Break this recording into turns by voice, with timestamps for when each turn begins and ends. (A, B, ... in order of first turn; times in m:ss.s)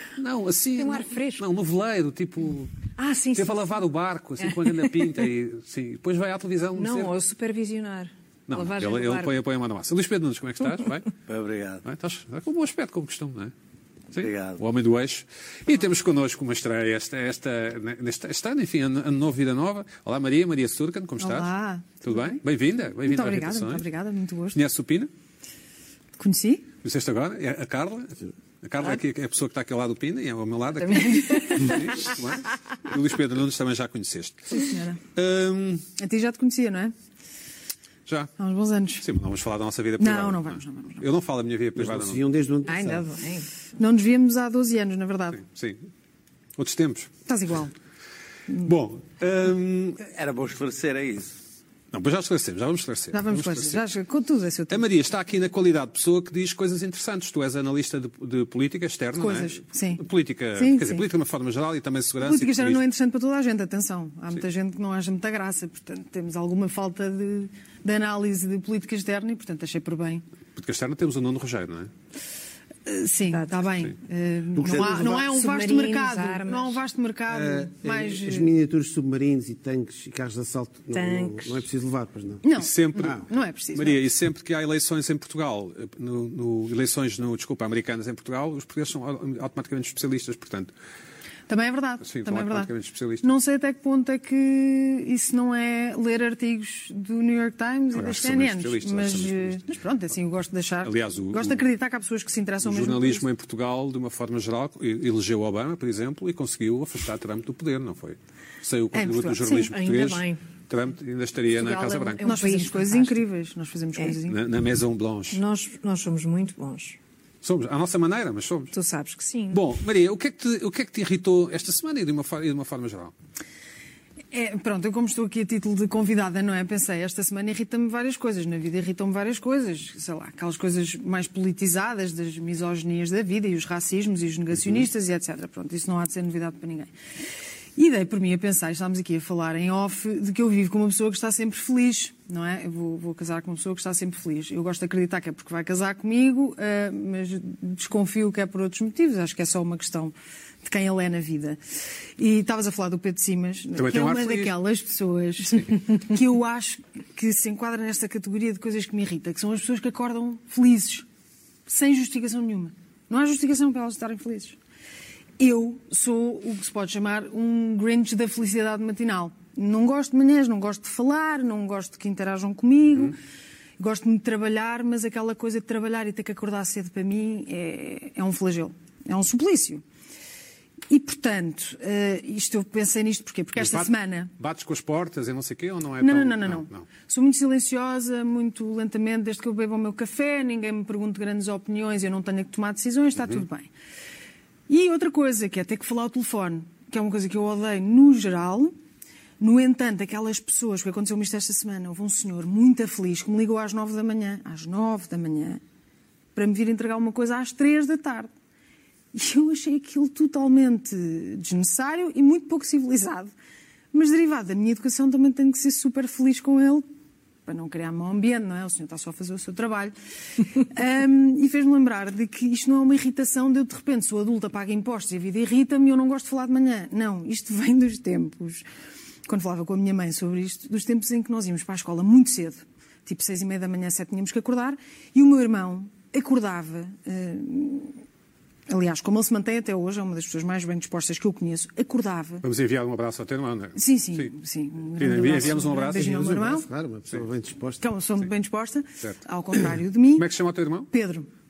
0:00.2-0:07.1 A
0:00.8-0:01.4 B
0:03.0-0:03.8 B
0:04.4-0:05.1 B
0:06.8-0:09.3 B
0:08.5-0:11.1 A
0:11.3-0:11.8 C
0:11.8-0:13.5 A
0:14.1-0:21.5 A
0:14.2-0:14.6 C
0:21.2-0:22.4 D
0:22.0-0:23.8 A
0:23.0-0:24.6 D
0:24.5-0:25.1 A
0:26.2-0:26.7 D
0:26.8-0:35.8 A
0:30.8-0:31.9 B
0:34.5-0:35.0 D
0:36.0-0:36.9 D
0:38.1-0:38.3 A
0:38.4-0:39.0 D
0:39.0-0:42.2 A
0:40.0-0:41.0 D
0:41.8-0:43.1 E
0:42.7-0:43.5 B
0:43.8-0:45.4 D
0:45.4-0:45.8 A
0:46.6-0:47.1 A
0:47.3-0:47.7 D
0:48.6-0:50.0 A
0:50.0-0:51.4 C
0:51.9-0:53.8 A
0:53.1-0:54.9 D
0:54.7-1:02.8 A
0:59.2-1:00.0 D
1:00.6-1:01.0 D
1:02.2-1:10.2 D
1:10.6-1:11.9 A
1:12.8-1:18.5 D
1:14.6-1:15.3 E
1:14.8-1:16.8 B
1:17.3-1:23.2 E
1:20.9-1:21.6 B
1:22.4-1:24.0 D
1:22.5-1:30.7 A
1:31.5-1:32.7 D
1:32.0-1:33.2 A
1:33.2-1:43.2 D
1:37.9-1:39.6 A
1:40.8-1:41.6 A
1:42.6-1:52.2 A
1:48.9-1:49.7 D
1:49.5-1:50.4 B
1:51.6-1:54.4 D
1:51.8-1:53.2 B
1:54.3-1:55.4 A
1:55.3-1:57.0 B
1:57.4-1:58.7 A
1:58.7-1:59.6 B
1:59.5-2:03.1 A
2:04.3-2:16.9 D
2:14.6-2:14.8 A
2:17.8-2:31.6 D
2:32.2-2:41.0 D
2:33.8-2:34.5 A
2:41.7-2:44.6 D
2:45.4-2:53.2 D
2:53.8-2:59.8 D
3:00.9-3:04.3 D
3:03.5-3:06.9 A
3:06.0-3:13.7 D
3:14.7-3:18.7 D
3:19.4-3:25.6 D
3:26.3-3:28.3 D
3:29.1-3:33.3 D
3:33.9-3:36.8 D
3:37.5-3:48.6 D
3:49.3-3:58.0 D
3:58.7-4:02.4 D
4:02.4-4:04.3 A
4:03.8-4:06.7 D
4:05.0-4:06.1 A
4:06.0-4:07.8 E
4:07.8-4:10.3 D
4:10.2-4:10.9 A
4:10.9-4:11.3 D